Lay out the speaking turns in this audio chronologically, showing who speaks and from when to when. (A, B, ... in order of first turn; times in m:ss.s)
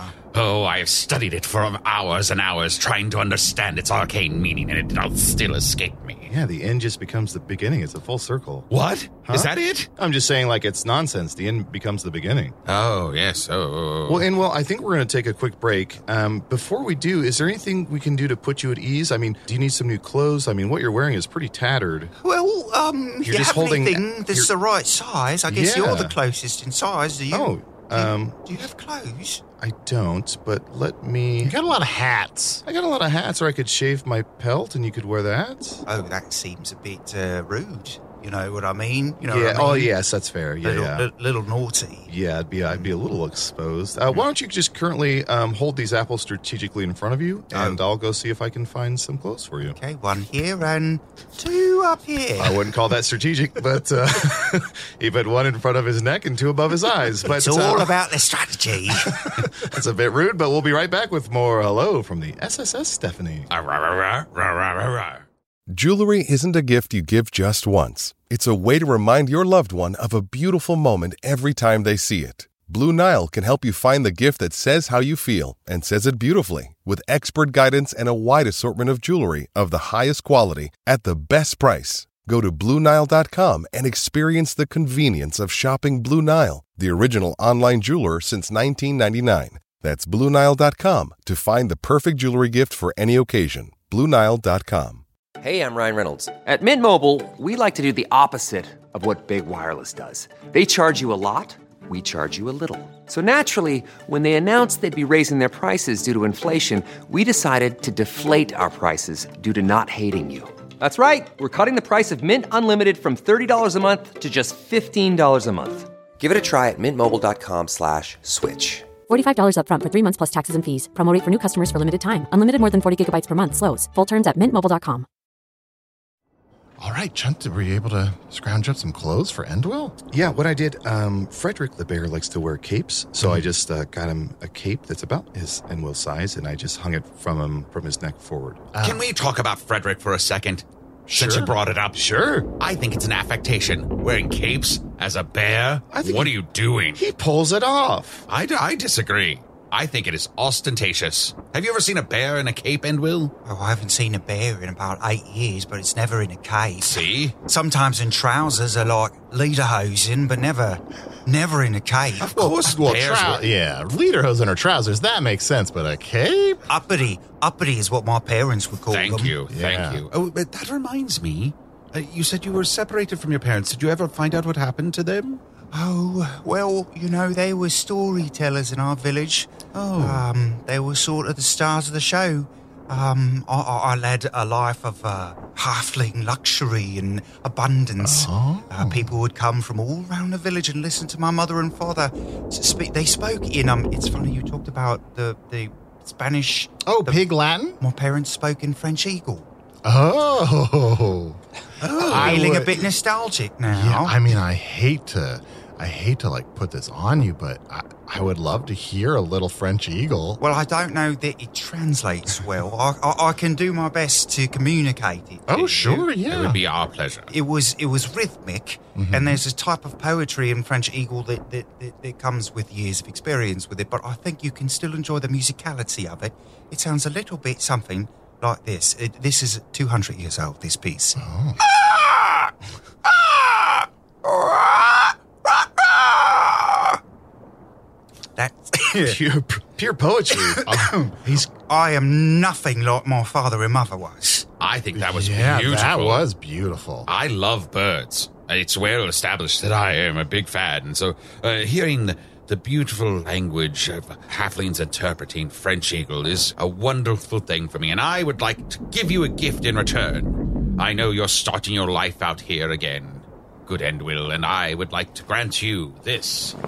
0:00.3-0:06.3 A
0:06.3-0:08.7 B
0:08.7-0:09.9 A
0:09.3-0:12.6 B
0:12.6-0:14.3 A
0:14.1-0:22.1 B
0:22.2-0:29.4 C
0:23.2-0:24.5 B
0:25.5-0:26.2 B
0:27.3-0:28.3 B
0:29.6-0:31.6 B
0:31.4-0:32.6 D
0:32.6-0:35.8 B
0:35.8-0:39.9 C
0:39.3-0:41.0 B
0:40.6-0:42.1 C
0:42.1-0:49.8 B
0:47.5-0:47.8 C
0:49.7-0:52.6 C
0:52.4-0:57.9 B
0:57.4-0:59.2 C
0:59.1-1:03.5 B
1:03.5-1:05.2 A
1:05.7-1:35.0 E
1:35.4-1:59.0 F
1:59.1-2:05.0 G
2:06.8-2:09.9 D
2:10.1-2:18.6 B
2:13.2-2:13.5 D
2:18.7-2:19.0 D
2:18.8-2:22.0 A
2:21.1-2:21.5 D
2:21.9-2:22.5 B
2:22.6-2:27.0 A
2:25.9-2:26.3 B
2:27.0-2:28.2 B
2:28.3-2:33.3 A
2:33.4-2:42.5 C
2:36.8-2:37.3 A
2:42.2-2:43.5 A
2:42.4-2:46.6 D
2:46.7-2:49.4 C
2:48.9-2:55.4 A
2:49.5-2:50.0 D
2:55.7-3:17.3 C
2:59.8-3:00.1 A
3:08.0-3:09.1 D
3:16.8-3:17.8 D
3:17.8-3:19.5 C
3:19.8-3:21.4 D
3:21.8-3:22.6 A
3:21.8-3:24.2 C
3:21.9-3:22.9 D
3:23.7-3:30.4 D
3:30.4-3:36.0 C
3:35.5-3:36.6 D
3:36.1-3:37.3 A
3:37.3-3:52.5 C
3:39.0-3:39.4 D
3:51.2-3:51.6 D
3:53.0-3:57.0 C
3:58.4-3:59.2 C
3:58.9-4:00.7 B
4:00.3-4:04.4 C
4:04.6-4:06.3 A
4:04.9-4:07.1 D
4:07.1-4:26.6 A